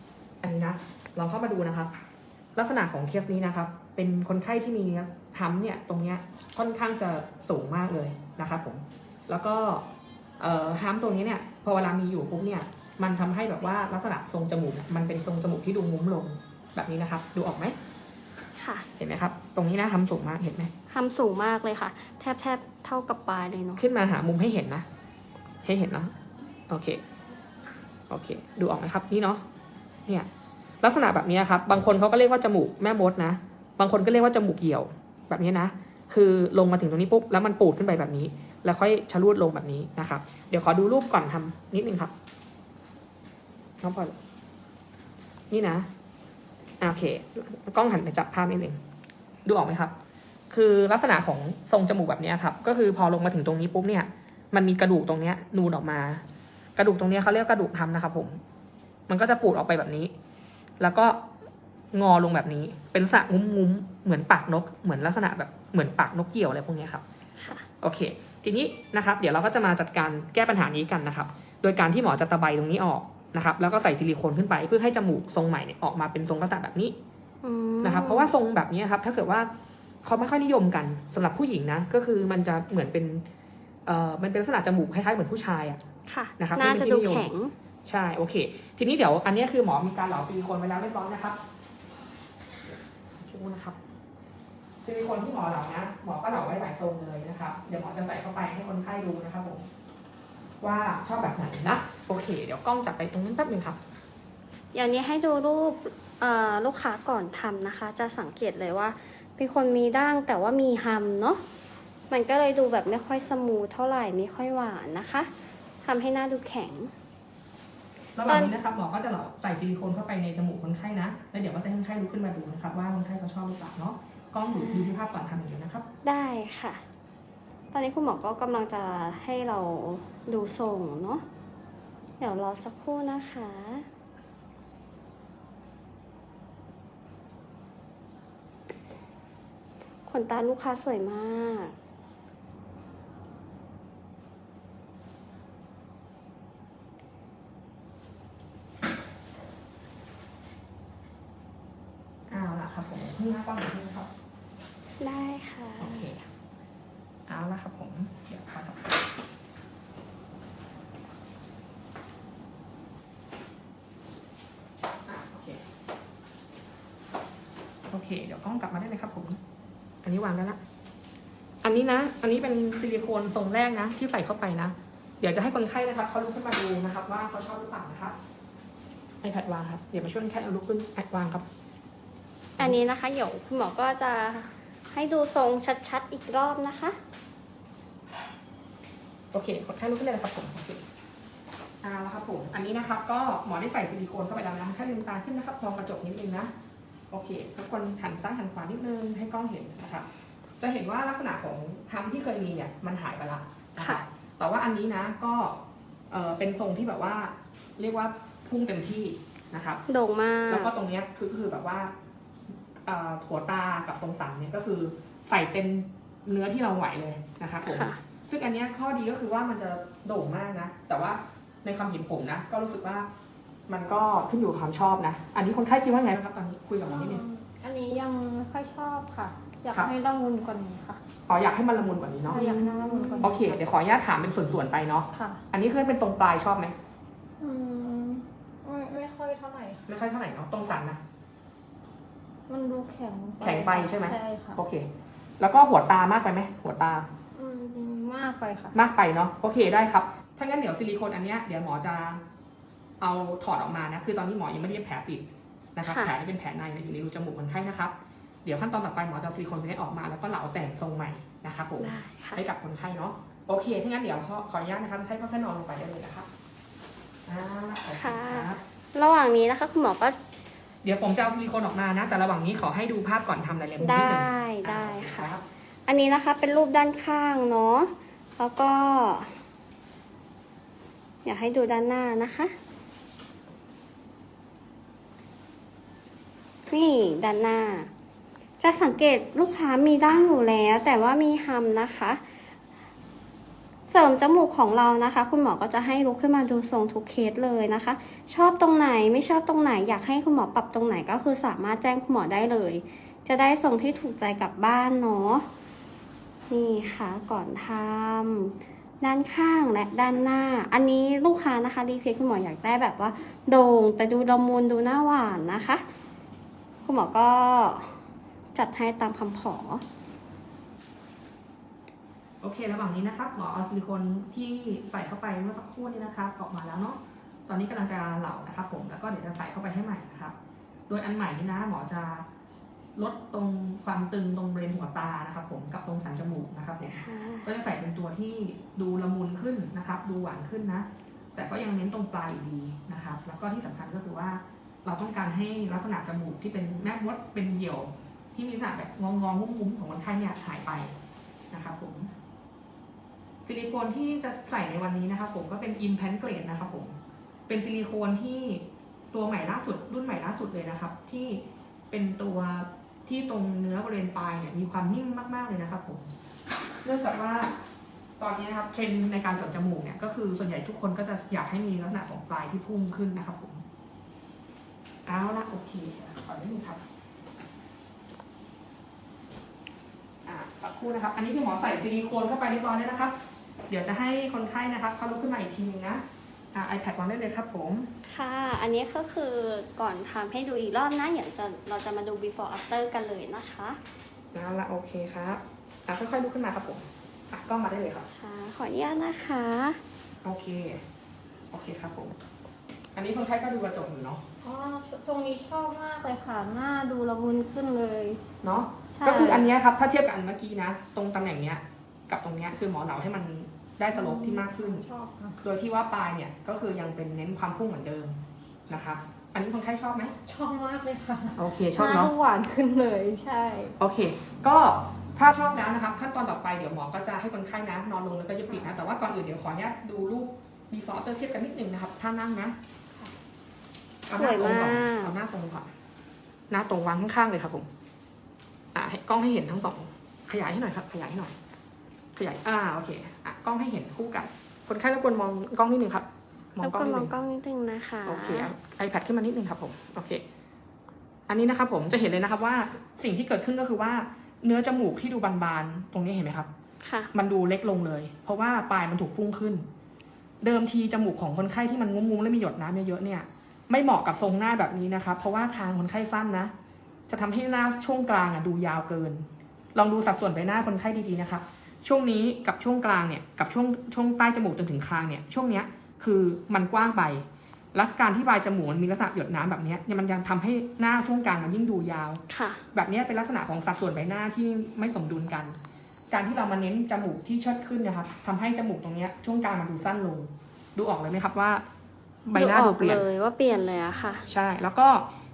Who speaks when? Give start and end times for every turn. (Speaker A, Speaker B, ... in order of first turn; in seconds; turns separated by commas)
Speaker A: 0.4-1.9, Speaker A: 2.6-9.9, Speaker A: 10.4-17.8, Speaker B: 18.6-18.9, Speaker A: 19.0-20.7, Speaker B: 20.9-23.8, Speaker A: 23.8-24.9, Speaker A: 25.6-26.1, Speaker A: 26.7-27.0, Speaker A: 28.1-29.4, Speaker A: 30.8-42.1, Speaker A: 43.8-44.1, Speaker A: 45.5-45.9, Speaker A: 46.8-48.8, Speaker A: 49.5-49.9, Speaker A: 50.5-56.2, Speaker A: 56.8-58.4, Speaker A: 59.1-60.1, Speaker A: 60.8-61.2, Speaker A: 61.9-67.0, Speaker B: 67.4-67.7, Speaker A: 67.8-77.0, Speaker B: 77.4-78.3, Speaker A: 77.8-79.5, Speaker A: 80.0-83.2, Speaker A: 83.9-85.8, Speaker B: 86.1-87.5, Speaker A: 86.4-87.3, Speaker A: 87.8-91.4, Speaker A: 93.2-93.8, Speaker A: 94.8-99.7, Speaker A: 100.6-103.8, Speaker B: 104.7-111.4, Speaker B: 112.1-115.3, Speaker B: 115.8-116.9, Speaker A: 118.2-125.8, Speaker B: 118.3-118.5, Speaker B: 124.4-125.0, Speaker B: 126.0-126.8, Speaker B: 127.7-131.2, Speaker B: 132.2-133.9, Speaker B: 140.1-141.7, Speaker A: 152.3-154.1, Speaker B: 155.0-156.1, Speaker A: 155.8-156.2, Speaker A: 157.3-158.9, Speaker A: 165.1-165.6, Speaker A: 167.9-169.4, Speaker A: 170.0-170.6, Speaker A: 171.6-178.2, Speaker A: 179.2-181.4, Speaker B: 182.6-187.0, Speaker A: 189.3-190.8, Speaker A: 191.8-196.5, Speaker A: 197.1-200.1, Speaker A: 200.6-209.8, Speaker B: 209.9-210.7, Speaker A: 210.5-211.9, Speaker A: 212.9-223.1, Speaker B: 217.7-218.0, Speaker A: 223.7-227.2, Speaker C: 226.9-231.0, Speaker A: 231.3-232.4, Speaker B: 232.3-233.3, Speaker C: 232.3-233.6, Speaker A: 233.2-236.8, Speaker C: 235.1-235.4, Speaker C: 237.4-239.8, Speaker A: 239.9-241.0, Speaker C: 242.5-244.6, Speaker A: 243.4-244.9, Speaker A: 245.4-247.1, Speaker C: 247.3-248.8, Speaker A: 248.7-252.2, Speaker A: 253.0-257.9, Speaker B: 255.8-256.1, Speaker A: 258.4-266.3, Speaker B: 261.8-262.4, Speaker A: 267.3-268.6, Speaker B: 267.9-270.2, Speaker A: 270.8-275.4, Speaker B: 273.8-275.3, Speaker B: 275.9-279.4, Speaker B: 281.2-282.5, Speaker B: 286.7-287.9, Speaker B: 288.6-292.2, Speaker B: 293.9-305.5, Speaker B: 306.5-315.8, Speaker B: 316.9-317.9, Speaker B: 318.5-319.8, Speaker A: 322.4-330.4, Speaker A: 330.9-332.3, Speaker A: 333.0-350.9, Speaker B: 336.8-337.5, Speaker A: 351.5-352.1, Speaker A: 353.4-357.0, Speaker A: 357.5-366.1, Speaker A: 366.8-367.6, Speaker A: 368.2-373.6, Speaker A: 375.1-376.8, Speaker A: 380.3-383.1, Speaker A: 383.7-387.9, Speaker B: 388.1-393.8, Speaker A: 394.3-398.1, Speaker B: 398.1-399.8, Speaker A: 400.2-400.8, Speaker A: 401.5-402.2, Speaker A: 402.9-404.2, Speaker C: 404.4-408.2, Speaker A: 408.4-414.9, Speaker C: 409.0-409.5, Speaker C: 413.9-415.4, Speaker A: 415.4-420.2, Speaker C: 420.2-423.8, Speaker A: 421.4-422.1, Speaker A: 423.8-432.6, Speaker A: 434.1-435.7, Speaker B: 434.1-435.1, Speaker A: 436.5-437.7, Speaker A: 438.8-441.4, Speaker A: 442.2-447.1, Speaker B: 446.6-448.5, Speaker A: 448.1-450.2, Speaker A: 451.3-456.5, Speaker B: 456.8-457.1, Speaker A: 457.1-459.7, Speaker A: 460.4-466.5, Speaker A: 467.1-482.2, Speaker B: 482.3-482.6, Speaker A: 482.7-485.6, Speaker A: 486.1-491.6, Speaker A: 492.3-493.1, Speaker B: 492.4-494.2, Speaker A: 494.3-495.1